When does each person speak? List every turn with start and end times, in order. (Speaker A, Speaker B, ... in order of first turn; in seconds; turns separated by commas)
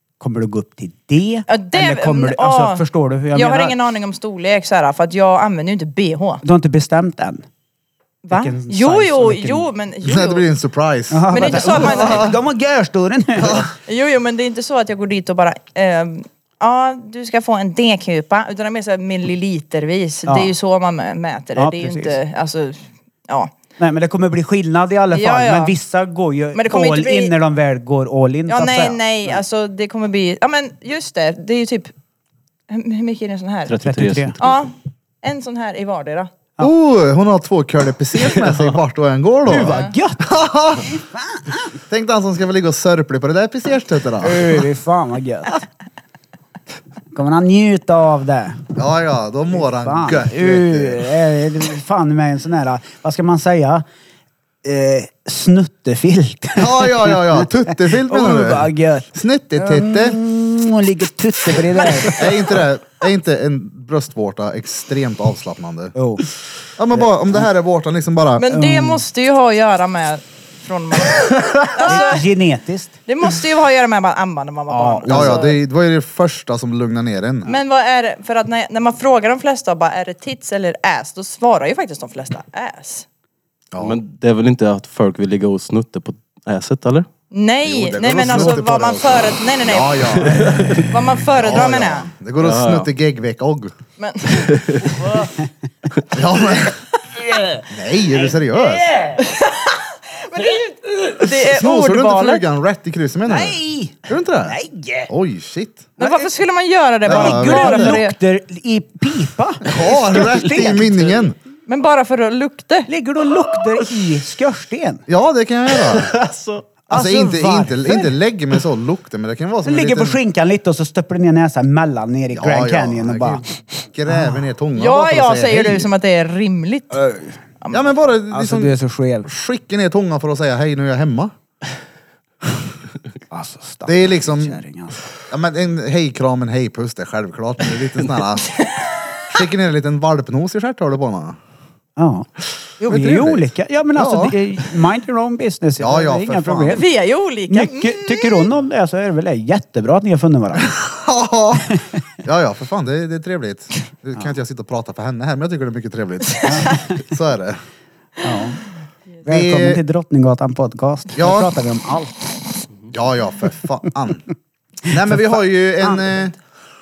Speaker A: 0.2-3.8, Speaker B: 1.5-6.4, Speaker A: 6.4-7.4, Speaker B: 8.2-10.5, Speaker A: 8.3-9.7, Speaker C: 10.0-12.3, Speaker A: 11.1-13.6, Speaker B: 11.3-12.3, Speaker C: 13.4-13.7, Speaker B: 13.8-23.5, Speaker A: 20.2-20.5, Speaker A: 21.6-22.2, Speaker A: 23.8-29.4, Speaker B: 25.1-25.7, Speaker B: 26.5-27.3, Speaker B: 28.5-31.9, Speaker B: 32.7-33.7, Speaker D: 33.6-34.6, Speaker A: 33.8-34.4, Speaker B: 34.4-36.3, Speaker C: 36.6-40.9, Speaker A: 39.5-40.3, Speaker B: 39.6-39.9, Speaker A: 40.8-41.7, Speaker C: 41.9-44.6, Speaker A: 44.2-45.6, Speaker A: 47.1-48.6, Speaker C: 48.7-51.0, Speaker A: 49.5-53.8, Speaker A: 54.6-62.3, Speaker C: 56.5-60.2, Speaker B: 61.8-62.1, Speaker C: 62.0-65.9, Speaker A: 65.9-66.2, Speaker C: 66.8-68.5, Speaker B: 68.4-72.3, Speaker A: 68.5-69.0, Speaker A: 71.8-73.0, Speaker B: 73.1-75.5, Speaker A: 74.7-75.5, Speaker C: 75.1-77.5, Speaker B: 77.5-83.0, Speaker C: 83.7-84.0, Speaker D: 83.8-87.1, Speaker B: 87.3-92.1, Speaker C: 87.6-93.7, Speaker D: 90.4-90.9, Speaker D: 92.4-92.9, Speaker B: 94.0-95.2, Speaker D: 94.4-95.0, Speaker C: 96.1-96.8, Speaker C: 97.7-98.9, Speaker B: 99.2-102.4, Speaker C: 101.2-105.9, Speaker A: 103.3-105.1, Speaker B: 106.0-108.2, Speaker A: 106.0-106.3, Speaker C: 107.0-108.0, Speaker A: 107.0-111.3, Speaker C: 109.6-111.3, Speaker B: 111.7-112.9, Speaker A: 112.9-115.0, Speaker C: 115.1-116.1, Speaker D: 115.8-116.6, Speaker A: 116.9-118.1, Speaker C: 116.9-120.2, Speaker A: 119.6-123.5, Speaker C: 122.3-125.9, Speaker A: 124.1-124.4, Speaker B: 124.8-127.0, Speaker A: 126.9-127.3, Speaker B: 127.6-127.9, Speaker C: 127.7-131.3, Speaker A: 128.3-129.3, Speaker A: 133.3-135.1, Speaker C: 133.8-134.6, Speaker C: 135.3-138.7, Speaker B: 138.5-138.9, Speaker C: 139.3-141.4, Speaker A: 142.0-142.3, Speaker A: 142.8-146.8, Speaker C: 142.9-144.3, Speaker C: 145.8-146.8, Speaker B: 146.7-148.5, Speaker A: 147.5-150.7, Speaker C: 150.6-157.6, Speaker A: 156.4-156.8, Speaker A: 158.2-158.6, Speaker A: 159.2-162.1, Speaker C: 159.3-159.8, Speaker C: 161.1-161.5, Speaker C: 162.9-164.3, Speaker C: 164.9-166.3, Speaker A: 165.1-166.0